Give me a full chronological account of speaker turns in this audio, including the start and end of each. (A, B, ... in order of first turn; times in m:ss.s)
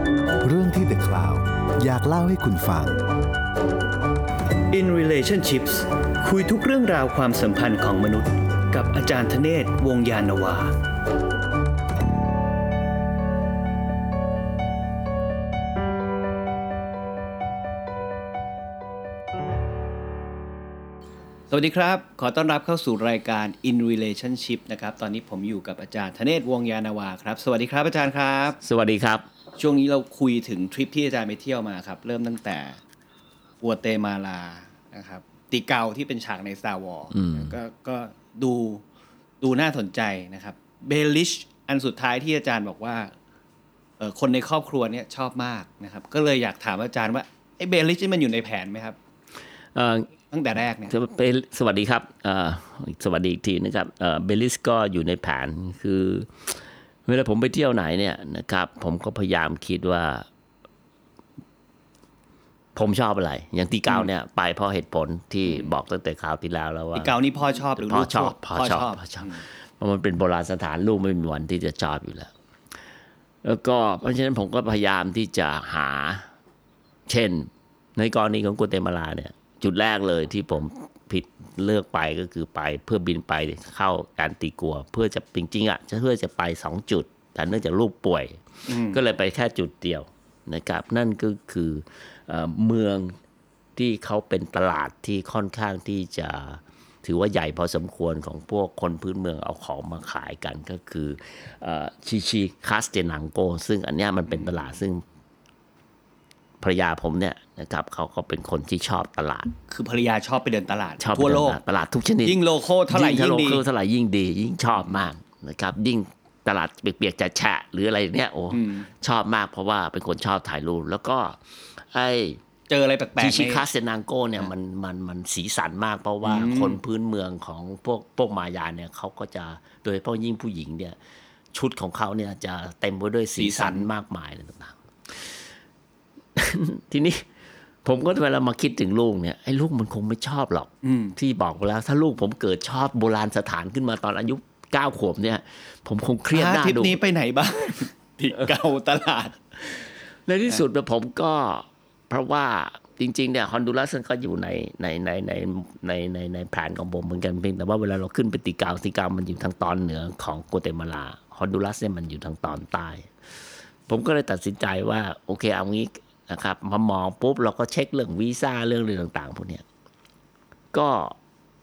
0:00.4-0:03.0 A
0:04.7-0:10.8 B
0:21.5-0:28.6 B
0:28.6-0:29.3 C
0:29.6-0:32.8 B
0:33.6-0:38.8 B
0:37.2-0:37.5 C
0:39.4-0:43.1 B
0:44.0-0:49.0 B
0:49.7-0:50.1 C
0:50.3-0:50.9 B
0:50.9-1:00.3 C
1:02.8-1:07.2 C
1:07.0-1:09.4 B
1:07.8-1:12.3 C
1:13.4-1:16.3 C
1:17.1-1:33.2 C
1:28.7-1:29.0 B
1:33.8-1:45.0 C
1:44.3-1:44.7 B
1:46.6-1:49.5 C
1:49.7-1:51.6 B
1:51.0-2:02.4 C
1:52.2-1:53.6 B
1:54.8-1:55.0 B
1:58.5-1:58.9 B
2:02.7-2:03.7 B
2:03.2-2:11.0 C
2:06.2-2:06.8 B
2:11.5-2:15.4 C
2:13.4-2:13.9 B
2:16.4-2:17.3 C
2:17.8-2:27.0 C
2:20.8-2:21.2 B
2:26.3-2:29.4 B
2:30.3-2:43.1 C
2:43.9-2:49.6 C
2:50.7-2:51.2 C